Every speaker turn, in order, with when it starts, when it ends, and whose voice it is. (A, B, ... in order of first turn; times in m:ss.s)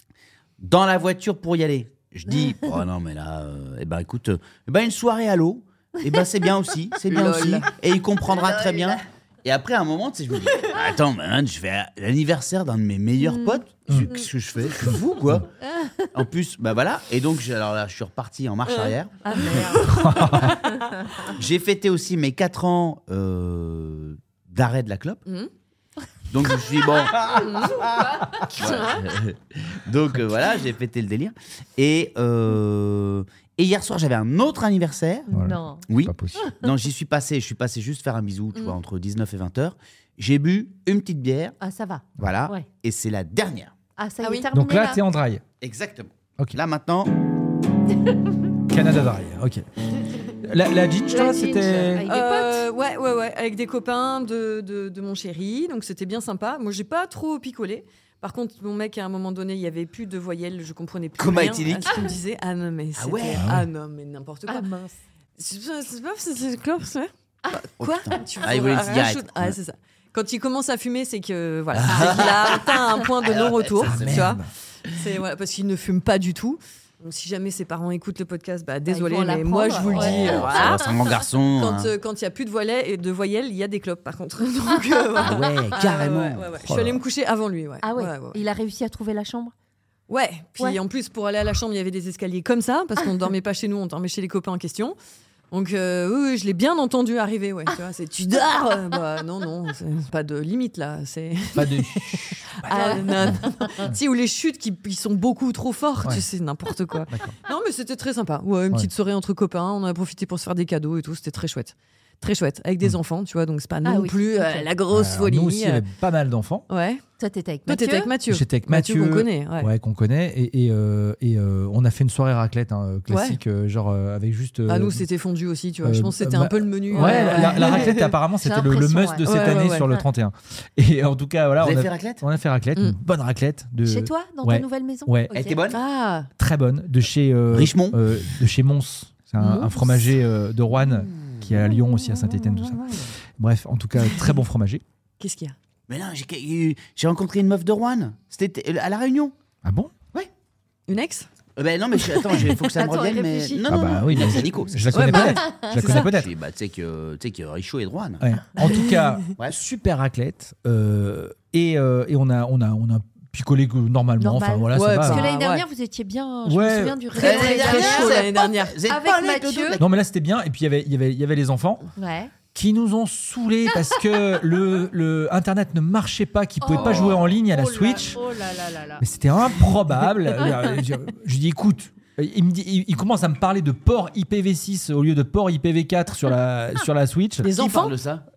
0:00.6-0:15.5 A
0:07.1-0:07.7 B
0:08.3-0:09.0 C
0:15.7-0:16.1 C
0:16.1-0:19.7 A
0:18.7-0:20.7 B
0:19.3-0:21.3 C
0:19.9-0:20.6 D
0:21.3-0:25.2 A
0:25.3-0:25.5 B
0:26.3-0:35.3 A
0:27.1-0:28.8 C
0:27.4-0:27.8 B
0:28.5-0:29.0 B
0:35.3-0:36.4 D
0:35.3-0:35.9 C
0:35.9-0:41.6 A
0:41.6-0:42.7 C
0:42.2-0:43.7 A
0:44.0-0:45.0 C
0:44.2-0:44.5 B
0:44.5-0:45.4 D
0:45.6-0:47.1 A
0:48.7-0:49.6 D
0:50.4-0:52.0 D
0:51.1-0:52.7 C
0:52.1-1:04.7 B
1:01.2-1:02.0 A
1:03.0-1:03.5 A
1:03.4-1:03.7 D
1:04.5-1:05.0 C
1:05.4-1:28.4 B
1:07.8-1:09.6 A
1:11.7-1:14.4 A
1:13.8-1:14.4 D
1:18.9-1:20.9 C
1:19.8-1:21.9 A
1:25.2-1:26.6 A
1:26.7-1:27.0 D
1:27.8-1:29.5 C
1:30.1-1:35.0 B
1:35.5-1:55.9 B
1:37.7-1:39.0 C
1:41.6-1:44.0 D
1:42.7-1:43.8 C
1:47.1-1:47.4 D
1:53.8-1:54.7 C
1:54.9-1:56.7 D
1:56.7-1:57.0 B
1:57.2-1:58.1 C
1:57.6-1:59.7 B
1:58.3-2:05.0 D
2:03.1-2:03.4 B
2:04.7-2:08.1 B
2:05.8-2:15.3 D
2:06.9-2:07.9 C
2:08.4-2:10.0 C
2:09.2-2:09.9 B
2:11.6-2:12.2 A
2:13.8-2:16.0 C
2:15.3-2:15.8 A
2:15.7-2:16.3 B
2:16.4-2:24.8 D
2:17.5-2:18.0 A
2:19.4-2:19.7 B
2:19.8-2:20.0 C
2:25.2-2:25.6 B
2:25.9-2:29.3 A
2:29.6-2:29.9 D
2:30.9-2:31.3 B
2:31.6-2:35.3 A
2:32.0-2:32.5 B
2:32.7-2:34.4 C
2:33.7-2:36.3 D
2:34.9-2:36.1 B
2:35.3-2:35.9 C
2:35.9-2:38.8 A
2:38.2-2:45.3 D
2:44.2-2:48.3 C
2:44.7-2:45.6 B
2:46.4-2:47.0 D
2:47.1-2:48.8 B
2:47.1-2:49.8 A
2:48.8-2:49.8 C
2:49.8-2:51.9 D
2:52.0-2:52.3 C
2:52.5-2:58.2 D
2:56.6-2:59.0 C
2:56.7-2:57.3 A
2:59.0-3:07.5 D
3:07.4-3:08.0 B
3:07.4-3:08.2 A